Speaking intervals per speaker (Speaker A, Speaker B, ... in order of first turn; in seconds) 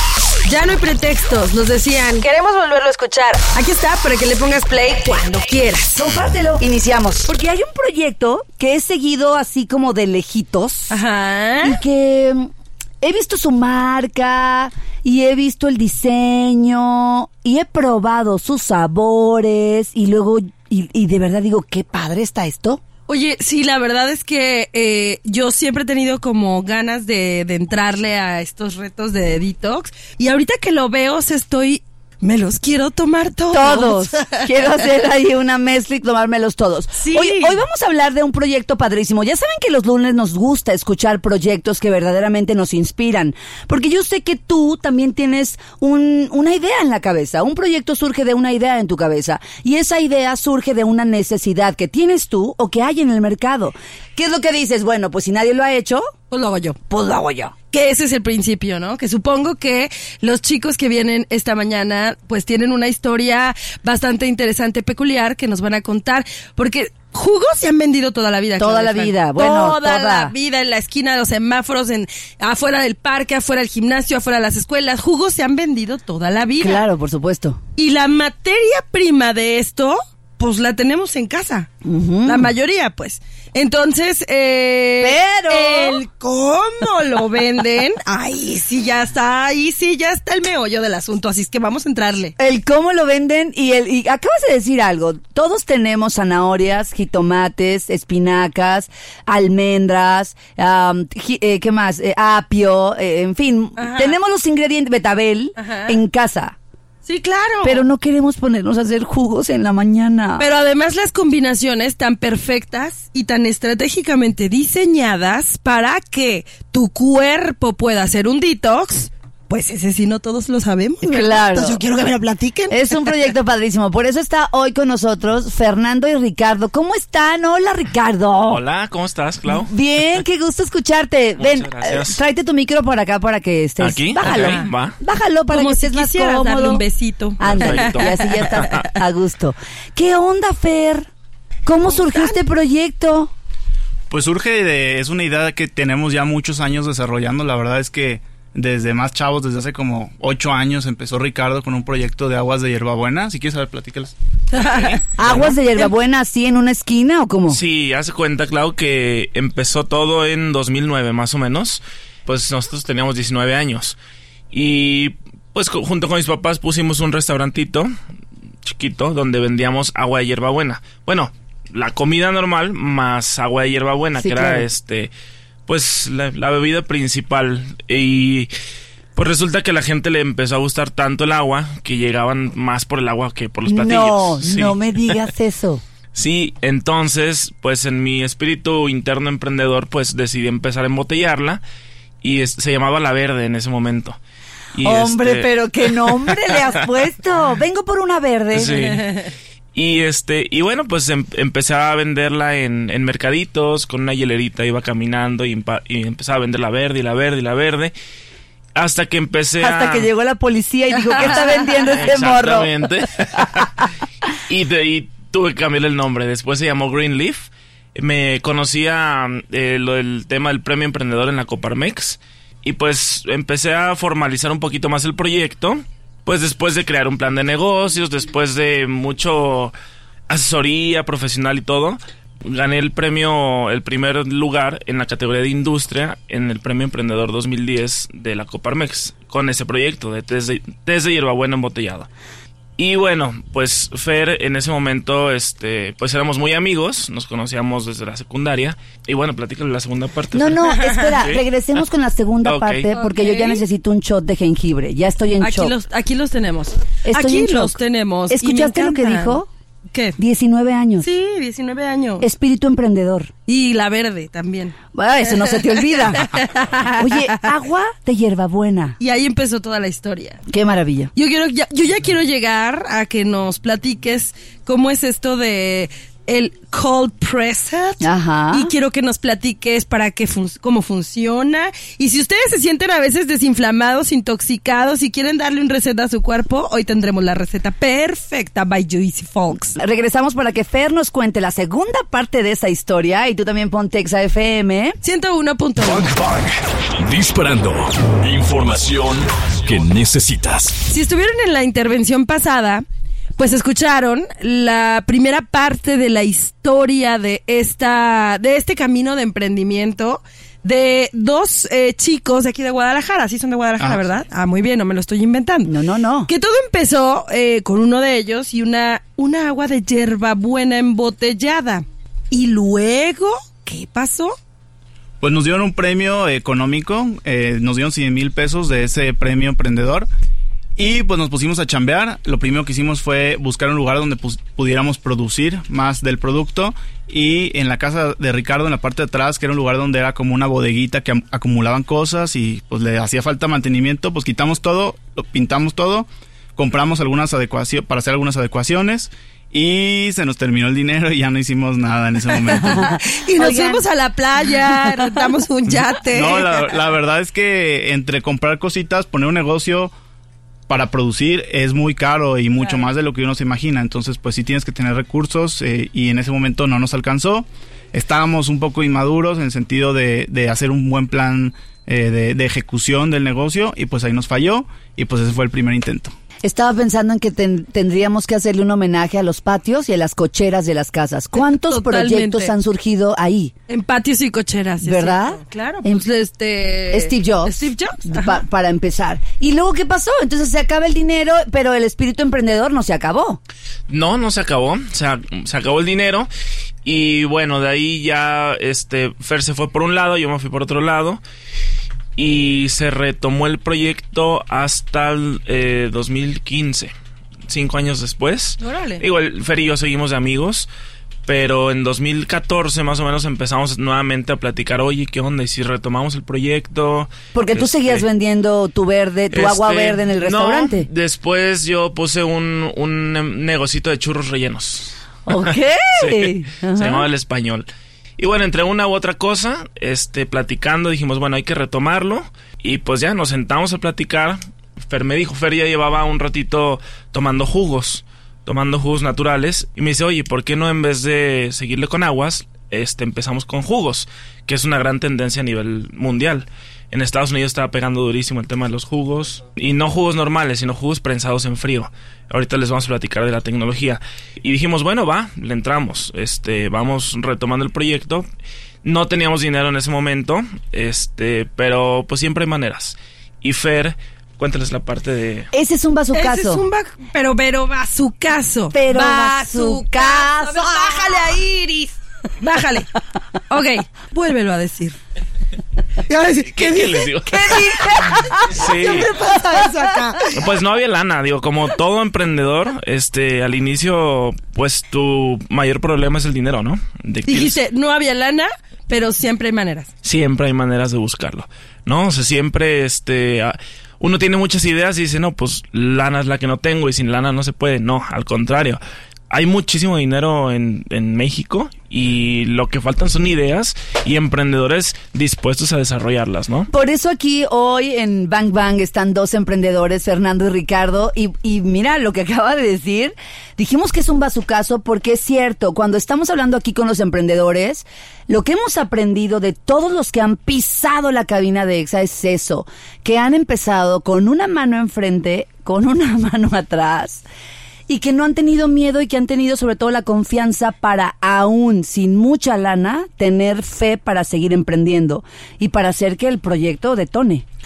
Speaker A: 0.5-6.0, 10.9-11.8, 23.1-34.5, 37.0-37.6, 56.3-56.8, 57.7-76.8, 77.8-81.7, 82.2-92.3, 103.8-104.2, 105.6-106.0, 107.1-107.9, 110.4-123.0, 134.2-134.7, 135.5-138.8, 142.0-142.4, 154.5-155.0, 211.2-211.9, 252.9-253.6, 255.4-259.4, 259.9-260.2, 261.0-262.3, 263.5-264.8, 266.1-267.4, 269.0-270.4, 271.1-289.8, 295.0-296.1, 300.9-302.8, 303.4-315.7, 316.3-324.4, 352.4-356.6, 381.4-382.5, 383.7-388.4, 408.6-409.0, 466.1-472.9, 473.5-475.0, 476.1-477.6, 478.5-480.4, 487.3-489.9
Speaker B: 6.0-10.9, 11.6-12.5, 13.0-22.8, 33.5-56.1, 56.9-57.5, 68.6-70.3, 76.6-77.6, 81.8-82.5, 85.0-86.0, 92.4-106.6, 107.6-110.5, 121.0-121.8, 122.7-128.6, 129.5-136.8, 137.4-141.1, 141.7-143.3, 155.2-157.6, 174.2-174.7, 183.7-185.8, 194.8-198.8, 209.6-213.8, 250.3-255.7, 257.1-257.8, 258.3-259.5, 260.2-261.1, 262.2-263.3, 264.9-269.0, 270.5-271.1, 278.0-278.7, 289.8-295.0, 315.7-316.3, 352.7-353.8, 376.4-383.5, 384.8-386.1, 386.9-393.4, 417.3-420.9, 425.3-427.1, 465.5-466.6, 468.7-471.2, 477.3-479.7, 506.7-527.2, 527.9-537.5
Speaker C: 128.5-129.7, 131.4-132.2, 133.8-134.9, 137.4-138.7, 155.2-155.6, 157.5-164.0, 164.5-167.9, 168.6-175.1, 175.7-178.5, 179.2-185.2, 186.2-191.6, 192.2-194.2, 194.8-195.5, 198.5-207.9, 208.8-210.1, 211.9-213.8, 214.5-229.7, 230.3-242.1, 242.8-251.4, 252.4-252.9, 393.9-396.3, 396.9-401.2, 402.2-406.9, 407.5-410.7, 411.3-418.1, 419.3-427.7, 428.2-458.3, 458.8-465.5, 476.5-477.6, 478.5-479.1, 480.3-487.6, 490.0-506.7
Speaker D: 144.1-154.1, 325.2-330.1, 330.8-352.9, 356.1-359.9, 360.7-376.1
Speaker E: 295.8-300.8